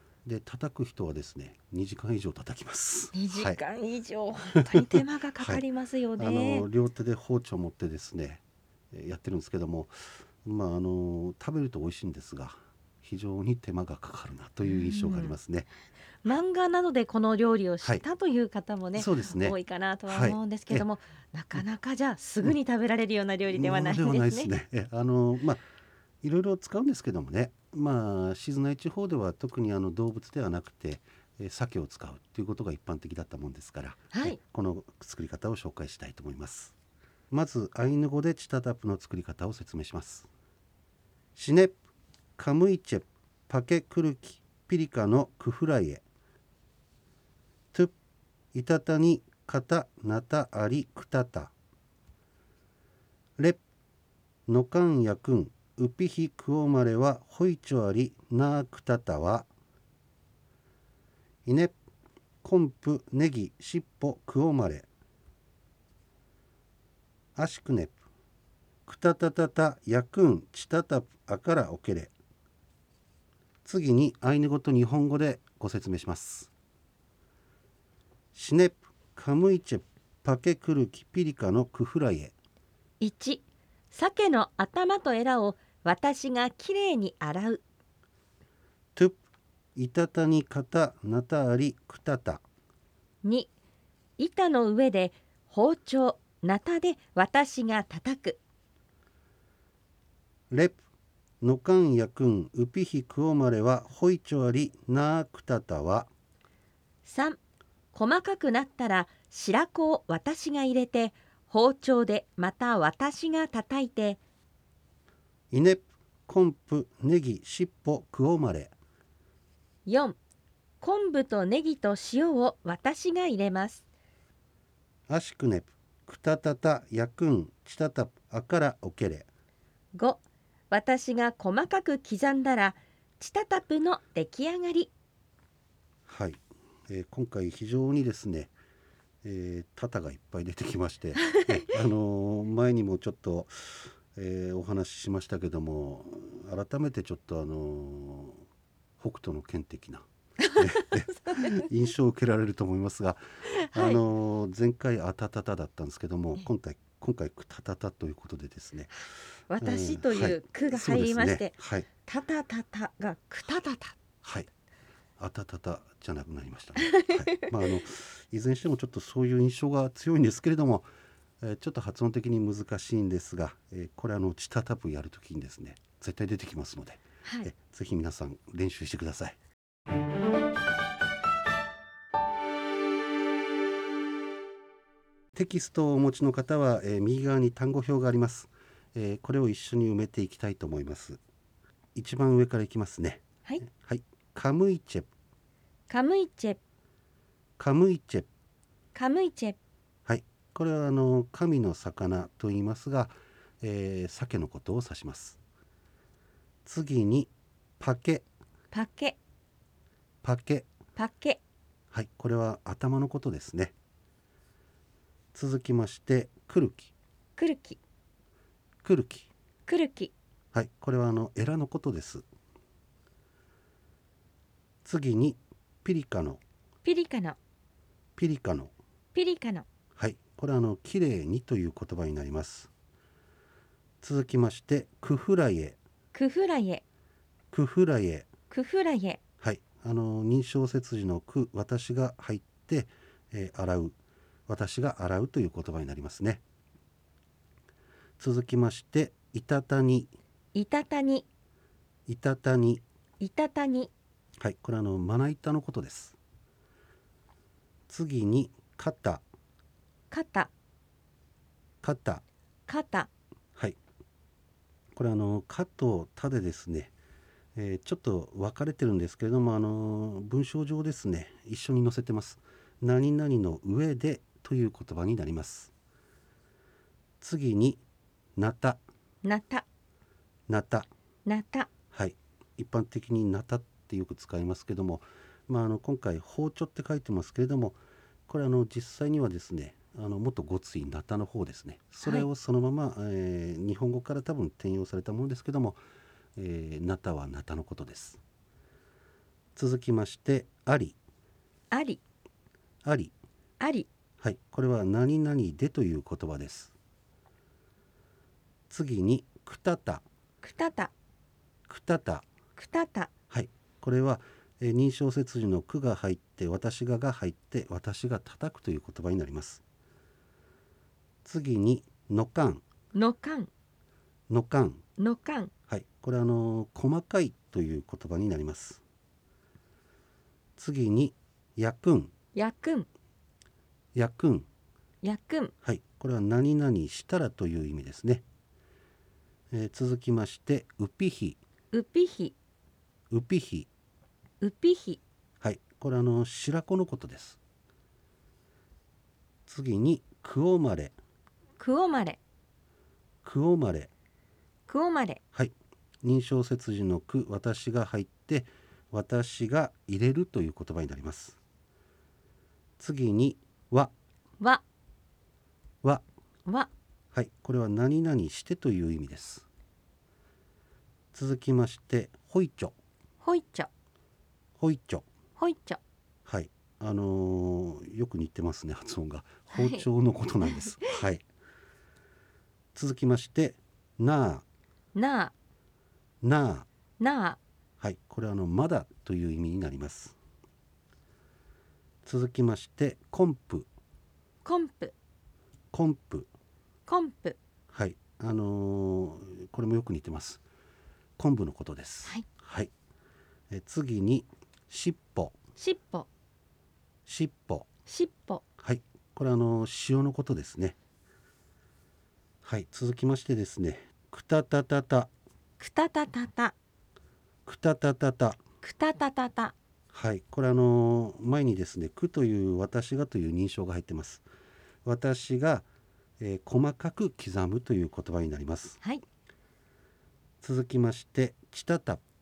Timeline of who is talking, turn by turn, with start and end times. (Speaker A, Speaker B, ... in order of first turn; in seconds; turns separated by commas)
Speaker A: 0.2-3.6, Speaker B: 3.1-6.7, Speaker A: 4.6-5.6, Speaker A: 6.2-15.7, Speaker B: 14.7-15.3, Speaker B: 16.2-24.5, Speaker A: 19.0-19.6, Speaker A: 20.1-20.9, Speaker A: 23.5-25.6, Speaker A: 26.2-36.7, Speaker A: 37.3-40.3, Speaker A: 41.4-41.8, Speaker A: 42.4-46.0, Speaker A: 48.5-51.5, Speaker A: 54.5-59.5, Speaker A: 61.5-61.8, Speaker A: 62.4-64.9, Speaker A: 67.4-68.0, Speaker A: 68.9-72.1, Speaker A: 73.7-76.5, Speaker A: 78.3-82.3, Speaker B: 83.0-87.6, Speaker A: 89.8-92.4, Speaker B: 93.2-93.5, Speaker B: 94.2-98.4, Speaker A: 100.5-100.8, Speaker A: 101.4-106.1, Speaker B: 107.1-107.4, Speaker B: 107.9-114.2, Speaker A: 115.5-118.8, Speaker B: 119.9-120.2, Speaker B: 120.8-123.8, Speaker A: 125.1-129.3, Speaker B: 129.9-134.9, Speaker A: 136.1-138.5, Speaker A: 139.2-148.4, Speaker A: 149.0-150.1, Speaker B: 150.4-151.4, Speaker A: 150.6-153.2, Speaker B: 153.5-154.0, Speaker A: 153.7-158.9, Speaker B: 159.5-164.0, Speaker A: 159.6-161.9, Speaker A: 164.2-164.5, Speaker A: 165.2-170.9, Speaker B: 166.9-167.4, Speaker A: 171.4-179.4, Speaker B: 177.2-177.5, Speaker A: 185.3-191.2, Speaker A: 191.9-195.1, Speaker B: 195.9-196.6, Speaker A: 197.6-198.3, Speaker B: 198.9-199.6, Speaker A: 200.1-205.4, Speaker A: 206.7-208.2, Speaker B: 208.7-209.2, Speaker A: 210.2-210.7, Speaker B: 211.0-211.4, Speaker A: 211.9-213.7, Speaker A: 215.3-216.9, Speaker B: 217.4-217.8, Speaker A: 218.8-219.3, Speaker B: 219.7-220.1, Speaker A: 220.5-222.2, Speaker A: 224.8-226.4, Speaker B: 226.8-227.4, Speaker A: 228.2-228.7, Speaker B: 229.1-229.7, Speaker A: 230.0-232.7, Speaker A: 234.0-235.8, Speaker B: 236.1-236.8, Speaker A: 237.5-238.3, Speaker B: 238.5-239.2, Speaker A: 239.4-244.0, Speaker A: 244.5-246.4, Speaker A: 248.2-250.1, Speaker B: 250.5-251.3, Speaker A: 252.1-252.8, Speaker B: 253.2-253.9, Speaker A: 254.4-256.2, Speaker A: 257.9-259.2, Speaker B: 260.1-260.5, Speaker A: 261.8-262.2, Speaker B: 262.7-263.1, Speaker A: 265.0-266.9, Speaker A: 267.6-275.7, Speaker A: 277.2-277.8, Speaker A: 278.4-278.8, Speaker B: 279.2-279.6, Speaker A: 280.5-280.9, Speaker B: 281.3-281.7, Speaker A: 281.9-295.8, Speaker A: 296.4-298.2, Speaker A: 299.6-301.0, Speaker B: 301.7-302.0, Speaker A: 302.8-303.1, Speaker B: 303.6-303.9, Speaker A: 304.2-306.7, Speaker A: 308.7-310.0, Speaker B: 310.4-310.9, Speaker A: 311.7-312.2, Speaker B: 312.6-313.1, Speaker A: 313.3-319.6, Speaker A: 321.2-322.6, Speaker B: 322.9-323.5, Speaker A: 324.3-324.8, Speaker B: 325.0-325.5, Speaker A: 325.7-328.8, Speaker A: 330.6-332.1, Speaker B: 332.4-332.9, Speaker A: 333.9-334.5, Speaker B: 335.0-335.5, Speaker A: 335.6-338.2, Speaker A: 339.5-341.4, Speaker B: 341.7-342.4, Speaker A: 343.1-343.7, Speaker B: 344.4-345.0, Speaker A: 345.4-347.4, Speaker A: 349.5-351.0, Speaker B: 351.6-352.2, Speaker A: 353.2-353.9, Speaker B: 354.7-355.2, Speaker A: 355.3-361.4, Speaker A: 362.8-363.9, Speaker B: 366.5-366.7, Speaker A: 367.1-369.5, Speaker A: 371.1-372.8, Speaker B: 373.2-373.7, Speaker A: 374.6-375.1, Speaker B: 375.4-375.8, Speaker A: 376.3-381.2, Speaker B: 379.5-379.9, Speaker B: 380.4-381.0, Speaker A: 382.8-384.4, Speaker B: 384.9-385.3, Speaker A: 386.2-386.7, Speaker B: 387.0-387.4, Speaker A: 387.8-390.2, Speaker A: 392.1-393.7, Speaker B: 394.4-394.9, Speaker A: 395.7-396.3, Speaker B: 396.9-397.4, Speaker A: 397.7-400.4, Speaker A: 401.2-402.7, Speaker A: 403.5-405.4, Speaker B: 405.6-406.1, Speaker A: 407.1-407.7, Speaker B: 407.9-408.4, Speaker A: 408.6-410.8, Speaker A: 412.4-415.1, Speaker B: 415.6-416.5, Speaker A: 417.5-418.4, Speaker B: 418.6-419.5, Speaker A: 419.9-424.2, Speaker A: 424.9-425.7, Speaker A: 426.2-428.8, Speaker A: 430.4-432.0